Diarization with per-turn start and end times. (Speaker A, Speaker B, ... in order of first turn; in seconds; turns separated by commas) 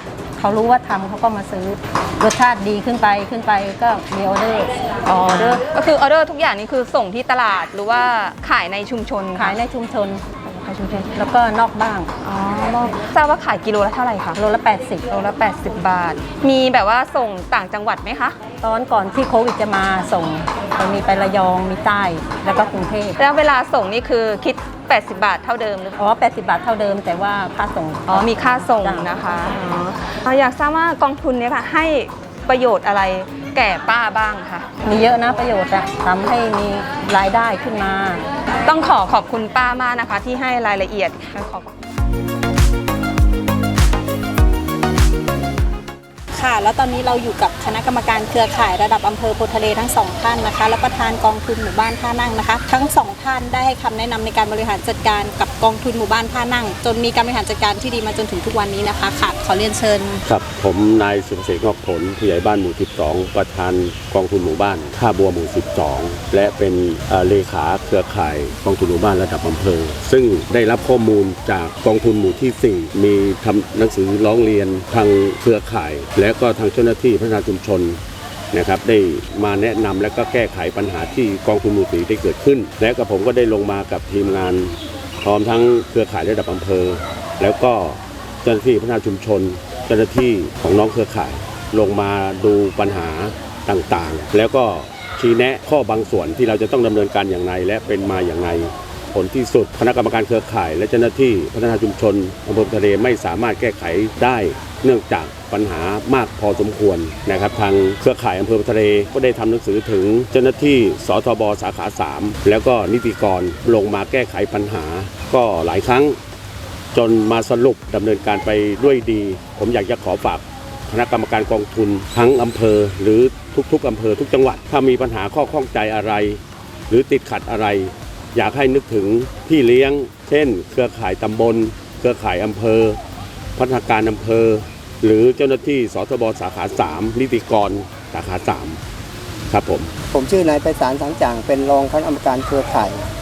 Speaker A: 0.4-5.7, Speaker B: 5.0-9.6, Speaker A: 9.3-10.3, Speaker B: 10.4-11.1, Speaker A: 11.1-12.1, Speaker B: 12.2-14.4, Speaker A: 14.3-15.2, Speaker B: 15.1-18.4, Speaker A: 18.6-23.2, Speaker B: 23.2-26.0, Speaker A: 26.0-29.2, Speaker B: 28.1-34.7, Speaker A: 34.8-38.2, Speaker B: 38.6-41.7, Speaker C: 46.4-60.2, Speaker D: 60.3-78.0, Speaker D: 78.5-116.2, Speaker D: 116.9-133.0, Speaker D: 133.6-138.8, Speaker D: 139.5-139.9, Speaker E: 140.1-143.0